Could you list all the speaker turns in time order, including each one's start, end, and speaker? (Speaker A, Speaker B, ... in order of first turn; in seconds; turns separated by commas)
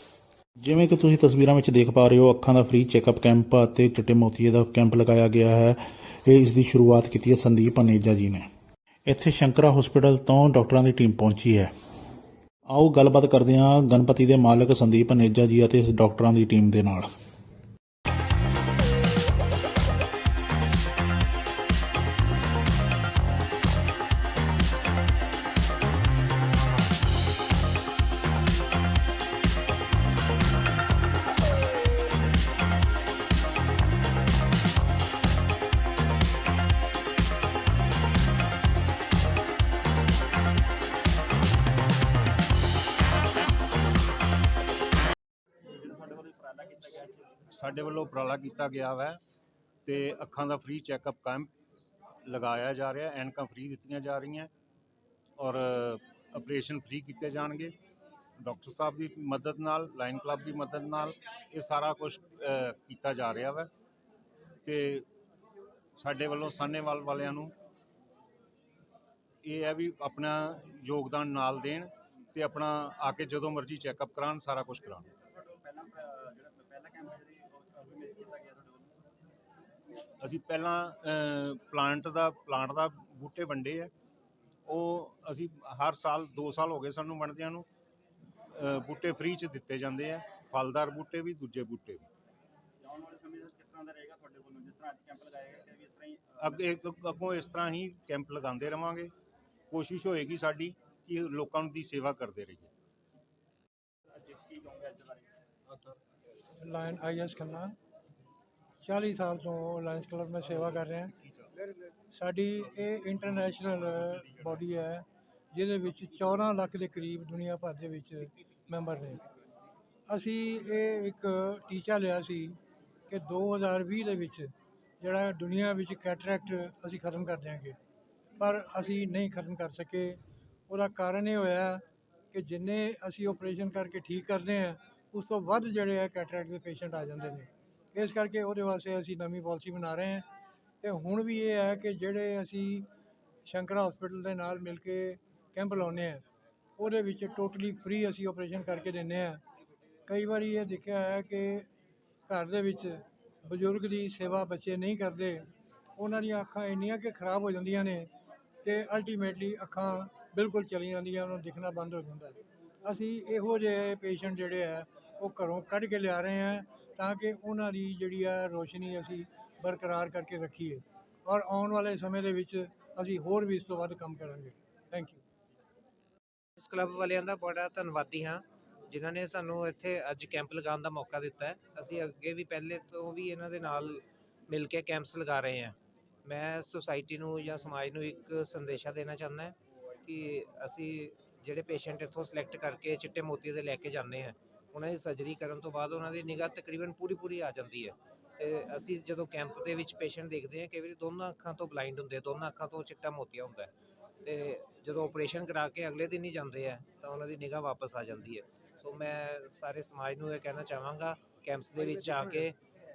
Speaker A: 0.6-8.5, Speaker A: 9.1-11.7, Speaker A: 12.7-17.1, Speaker B: 45.8-47.3, Speaker C: 47.5-49.2, Speaker C: 49.9-51.5, Speaker C: 52.3-54.5, Speaker C: 55.4-57.8, Speaker C: 58.4-63.7, Speaker C: 64.7-65.1, Speaker C: 66.0-67.5, Speaker C: 69.4-75.1, Speaker B: 75.3-78.9, Speaker C: 80.2-83.9, Speaker C: 84.7-87.7, Speaker C: 88.5-92.1, Speaker B: 92.8-96.6, Speaker C: 96.4-99.1, Speaker C: 99.7-102.7, Speaker B: 104.2-105.3, Speaker D: 106.6-107.8, Speaker D: 108.8-111.1, Speaker D: 112.1-119.2, Speaker D: 120.1-122.6, Speaker D: 123.1-127.8, Speaker D: 128.4-140.3, Speaker D: 140.8-142.9, Speaker D: 143.5-146.2, Speaker D: 146.8-149.4, Speaker D: 150.1-151.7, Speaker D: 152.3-158.1, Speaker D: 158.6-175.2, Speaker E: 176.6-185.8, Speaker E: 186.3-203.7, Speaker E: 204.2-212.6